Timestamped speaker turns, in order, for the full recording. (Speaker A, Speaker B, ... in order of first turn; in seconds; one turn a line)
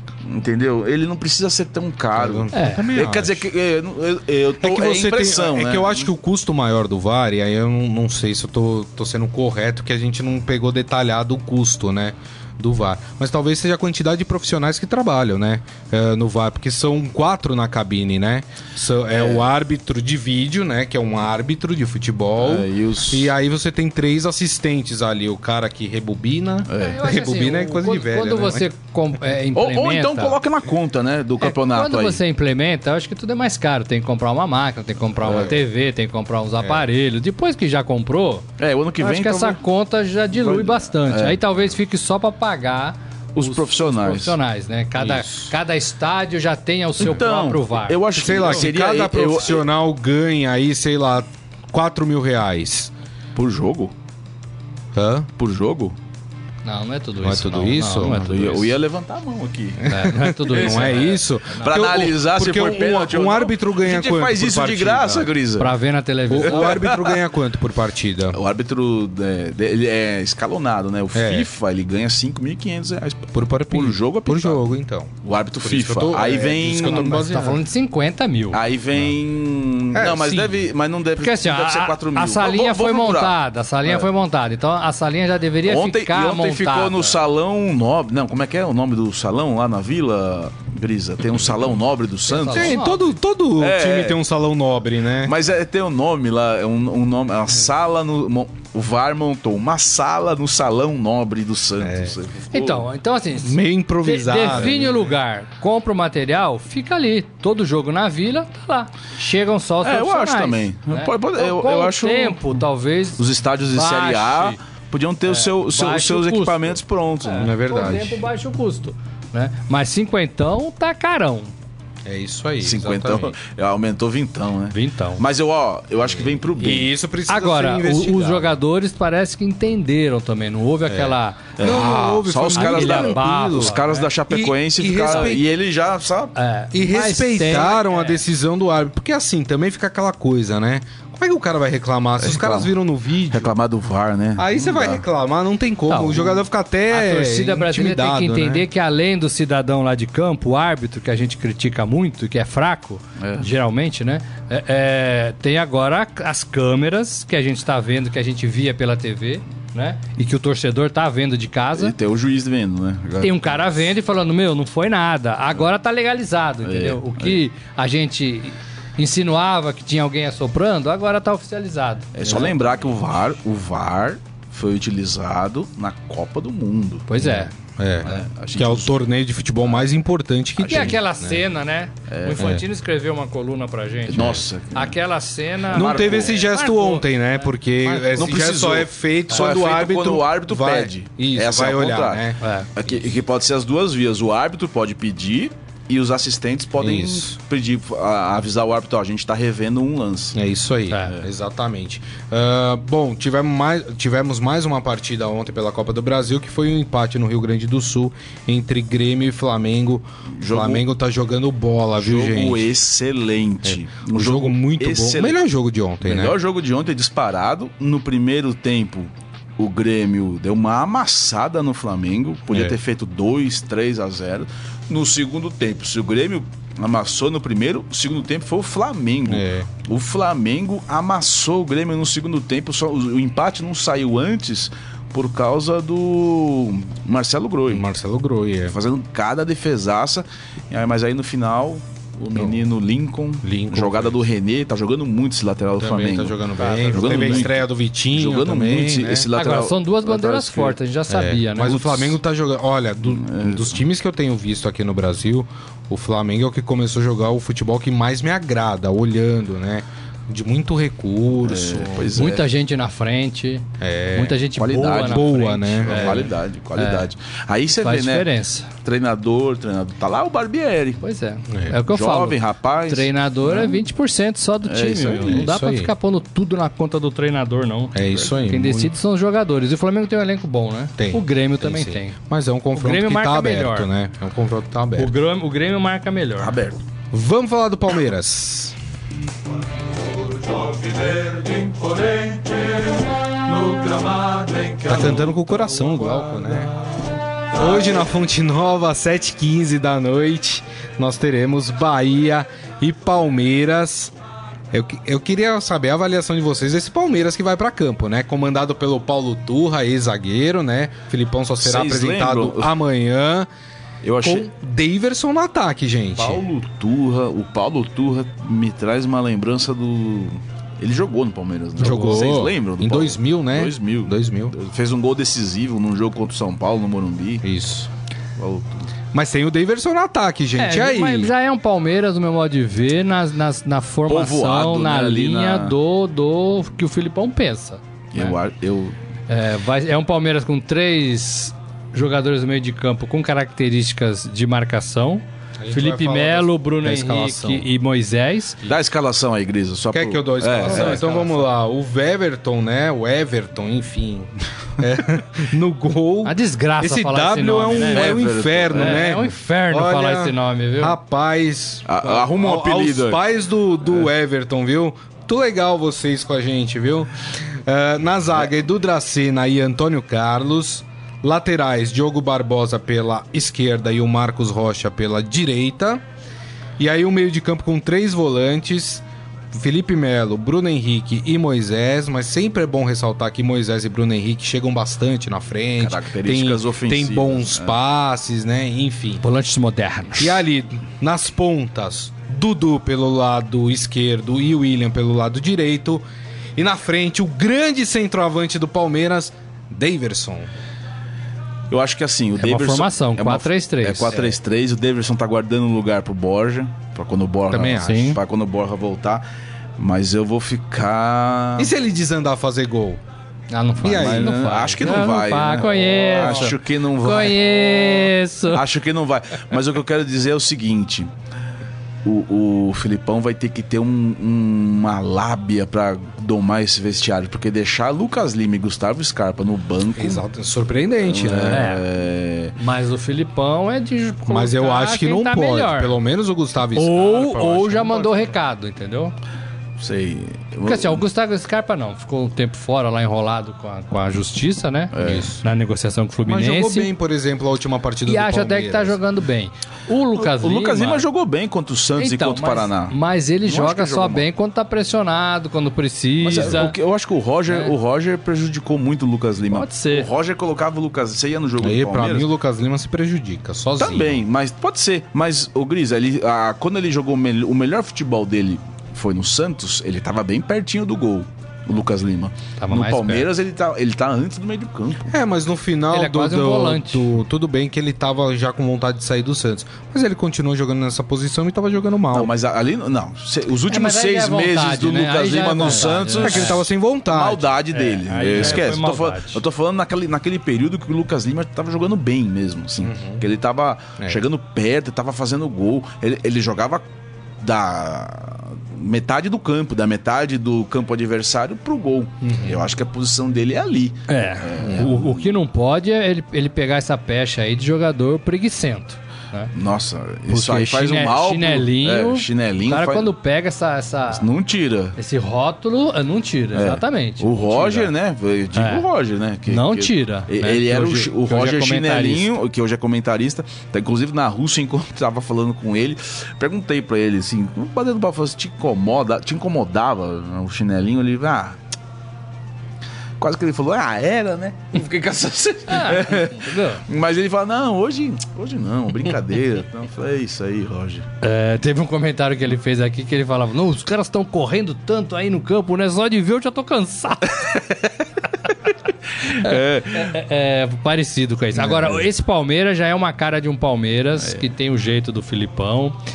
Speaker A: 0.2-6.1
Speaker B: 2.1-3.5
Speaker C: 2.5-2.9
Speaker B: 4.6-28.7
Speaker A: 19.1-19.4
Speaker A: 22.4-23.3
Speaker A: 26.7-27.0
Speaker C: 26.8-30.4
Speaker A: 29.5-32.2
Speaker C: 31.4-38.5
Speaker A: 35.2-35.5
Speaker B: 35.3-35.5
Speaker A: 38.6-39.6
Speaker C: 39.0-48.6
Speaker A: 40.3-41.4
Speaker A: 43.3-44.4
Speaker A: 45.0-45.5
Speaker A: 47.0-49.6
Speaker B: 48.1-52.9
Speaker A: 53.4-53.9
Speaker B: 54.9-55.3
Speaker A: 55.4-56.0
Speaker C: 56.6-58.7
Speaker B: 57.2-58.4
Speaker A: 58.0-65.7
Speaker B: 59.8-65.3
Speaker C: 59.9-61.8
Speaker C: 65.6-66.8
Speaker B: 66.3-68.4
Speaker A: 66.3-67.2
Speaker A: 68.3-74.6
Speaker B: 71.1-71.5
Speaker B: 73.3-77.6
Speaker A: 75.2-77.3
Speaker C: 76.9-78.6
Speaker A: 78.5-84.1
Speaker B: 79.9-80.5
Speaker C: 81.2-87.2
Speaker A: 85.7-92.8
Speaker C: 92.3-93.1
Speaker B: 92.5-95.3
Speaker A: 93.6-94.2
Speaker A: 95.2-102.8
Speaker B: 101.8-102.2
Speaker C: 102.5-114.6
Speaker B: 103.4-105.0
Speaker A: 109.8-112.5
Speaker A: 113.2-117.6
Speaker C: 115.2-121.5
Speaker B: 117.4-118.2
Speaker B: 122.0-123.3
Speaker A: 122.6-126.9
Speaker C: 124.7-125.2
Speaker B: 126.6-128.6
Speaker C: 127.3-131.9
Speaker B: 130.9-133.8
Speaker A: 131.6-136.3
Speaker C: 132.5-134.1
Speaker B: 134.3-135.4
Speaker C: 136.3-138.2
Speaker B: 136.7-143.5
Speaker A: 142.2-142.7
Speaker A: 143.3-145.0
Speaker B: 144.4-148.6
Speaker C: 145.9-161.9
Speaker A: 153.2-153.5
Speaker A: 161.7-163.8
Speaker C: 163.2-172.5
Speaker A: 166.6-167.4
Speaker A: 172.1-177.1
Speaker C: 177.1-177.5
Speaker B: 177.2-181.4
Speaker A: 178.0-179.0
Speaker A: 180.6-181.0
Speaker C: 180.7-187.5
Speaker A: 182.1-182.6
Speaker A: 184.1-184.9
Speaker A: 185.7-186.4
Speaker B: 185.7-192.4
Speaker A: 188.0-200.4
Speaker C: 192.4-192.7
Speaker B: 196.8-197.3
Speaker B: 200.3-212.7
Speaker A: 210.4-210.8
Speaker A: 212.0-215.4
Speaker B: 213.6-216.3
Speaker A: 216.0-237.8
Speaker B: 222.5-222.8
Speaker B: 229.3-229.7
Speaker B: 237.7-238.8
Speaker A: 238.7-250.8
Speaker B: 243.4-244.2
Speaker B: 245.8-249.3
Speaker C: 246.6-247.5
Speaker C: 249.3-252.0
Speaker B: 251.1-262.2
Speaker A: 253.0-253.8
Speaker A: 261.4-262.5
Speaker C: 262.1-267.1
Speaker B: 263.8-264.4
Speaker A: 264.5-268.3
Speaker B: 265.0-266.3
Speaker C: 267.8-268.7
Speaker A: 268.8-271.0
Speaker C: 271.0-282.2
Speaker B: 271.5-271.7
Speaker A: 271.8-273.8
Speaker A: 274.6-275.5
Speaker B: 275.2-275.9
Speaker B: 277.9-278.9
Speaker B: 281.0-285.1
Speaker C: 282.7-283.9
Speaker C: 284.9-286.5
Speaker A: 286.4-286.8
Speaker B: 287.1-288.7
Speaker A: 290.2-295.3
Speaker B: 294.9-296.7
Speaker B: 297.5-304.1
Speaker B: 304.7-313.5
Speaker A: 311.6-312.7
Speaker A: 314.0-314.5
Speaker B: 314.2-316.4
Speaker A: 316.2-327.4
Speaker B: 321.8-324.5
Speaker B: 327.4-327.9
Speaker A: 328.4-328.9
Speaker B: 329.1-331.3
Speaker C: 330.6-338.4
Speaker A: 334.1-335.7
Speaker A: 338.1-338.9
Speaker C: 339.3-348.6
Speaker B: 345.6-347.7
Speaker A: 348.6-351.0
Speaker B: 349.9-376.0
Speaker C: 350.6-351.5
Speaker C: 356.2-360.9
Speaker A: 357.8-359.2
Speaker A: 361.9-363.2
Speaker B: 376.8-389.2
Speaker A: 385.8-387.8
Speaker C: 389.2-390.4
Speaker B: 390.2-396.0
Speaker B: 396.6-400.5
Speaker A: 401.7-409.2
Speaker C: 402.4-404.2
Speaker B: 407.5-408.1
Speaker C: 407.7-408.2
Speaker A: 409.8-411.7
Speaker B: 411.6-413.0
Speaker C: 413.5-418.6
Speaker B: 413.8-414.4
Speaker A: 413.8-421.1
Speaker B: 416.1-416.5
Speaker A: 422.0-430.2
Speaker B: 429.9-431.6
Speaker A: 431.0-432.5
Speaker C: 431.5-431.9
Speaker C: 432.6-435.9
Speaker B: 434.3-438.3
Speaker C: 436.7-439.1
Speaker A: 439.8-441.0
Speaker C: 440.6-446.9
Speaker A: 444.9-445.4
Speaker B: 445.0-445.3
Speaker B: 446.2-449.0
Speaker C: 448.1-451.1
Speaker A: 450.1-454.2
Speaker C: 452.0-456.8
Speaker A: 456.2-462.3
Speaker C: 457.5-457.7
Speaker C: 459.5-460.1
Speaker B: 461.6-464.2
Speaker A: 463.8-475.1
Speaker C: 472.6-473.3
Speaker B: 475.1-482.3
Speaker C: 475.9-477.1
Speaker A: 482.1-496.8
Speaker C: 483.7-486.6
Speaker B: 485.7-487.5
Speaker C: 487.7-489.4
Speaker B: 488.4-488.7
Speaker B: 492.8-493.2
Speaker A: 497.4-505.3
Speaker B: 502.2-502.6
Speaker C: 504.1-509.5
Speaker B: 504.6-504.9
Speaker A: 509.5-513.1
Speaker C: 510.3-514.3
Speaker A: 514.1-515.0
Speaker C: 515.0-517.9
Speaker A: 516.5-531.6
Speaker C: 518.5-518.9
Speaker C: 519.5-522.3
Speaker A: 533.2-541.1
Speaker C: 535.7-536.8
Speaker C: 541.2-547.8
Speaker C: 549.2-556.0
Speaker A: 549.2-550.1
Speaker B: 551.5-552.0